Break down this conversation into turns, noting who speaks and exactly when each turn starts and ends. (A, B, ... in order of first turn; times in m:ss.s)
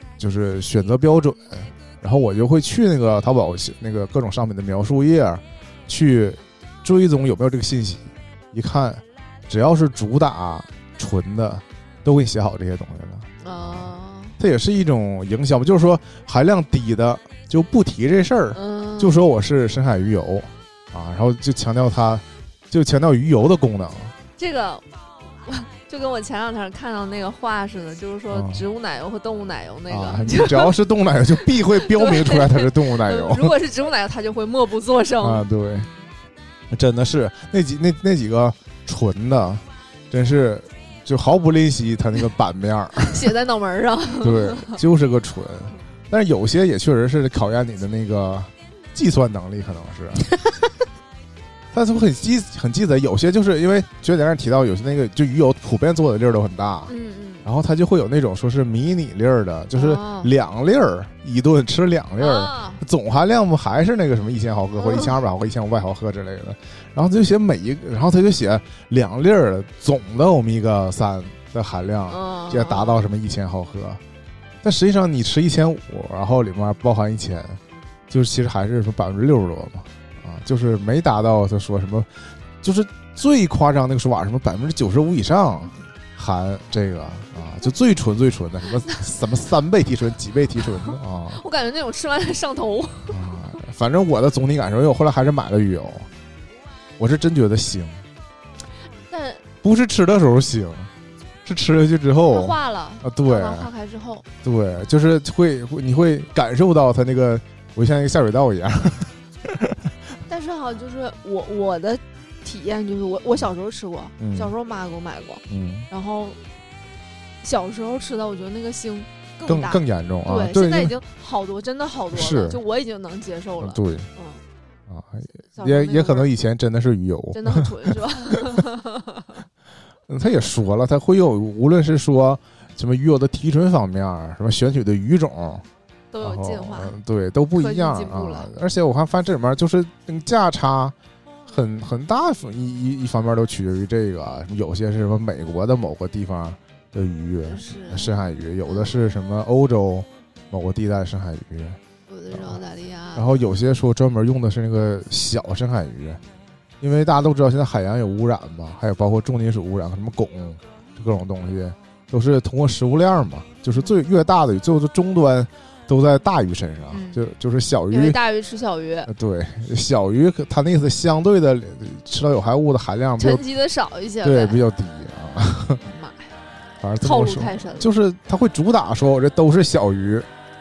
0:00.2-0:24.1 A
0:13.4-0:14.4 B
0:18.5-0:19.2 B
0:24.4-0:30.8 B
0:28.3-0:28.7 A
0:29.9-0:33.6 A
0:31.3-0:35.5 B
0:35.2-0:35.9 A
0:36.7-0:43.3 A
0:43.1-0:44.8 B
0:44.2-0:50.4 A
0:51.7-0:56.9 A
0:56.9-0:57.5 B
0:57.4-1:14.0 A
0:59.8-1:00.3 B
1:02.2-1:02.8 B
1:04.8-1:05.2 B
1:12.1-1:13.1 B
1:14.6-1:17.6 A
1:18.1-1:22.1 A
1:22.6-1:31.4 A
1:30.7-1:33.2 B
1:33.1-1:36.1 A
1:37.0-1:38.0 A
1:39.1-1:39.4 B
1:39.6-1:40.9 A
1:41.4-1:43.7 A
1:42.3-1:44.3 B
1:44.4-1:49.9 A
1:50.3-1:56.4 B
1:54.2-1:54.5 A
1:55.5-1:55.9 A
1:57.4-2:04.4 B
1:59.4-2:01.0 A
2:02.1-2:02.6 A
2:03.6-2:04.1 A
2:04.9-2:08.4 A
2:05.6-2:06.3 B
2:07.3-2:09.4 B
2:10.1-2:15.6 A
2:16.1-2:17.0 B
2:16.2-2:20.9 A
2:17.6-2:18.5 B
2:21.5-2:31.8 A
2:27.5-2:28.1 B
2:28.6-2:28.9 B
2:32.1-2:33.4 B
2:32.3-2:32.6 A
2:33.2-2:36.2 A
2:36.8-2:48.2 A
2:46.9-2:47.2 B
2:47.9-2:49.1 B
2:49.1-2:53.4 A
2:53.2-2:54.6 B
2:54.2-2:55.8 A
2:55.8-2:56.3 B
2:56.8-3:00.3 A
2:57.0-2:57.9 B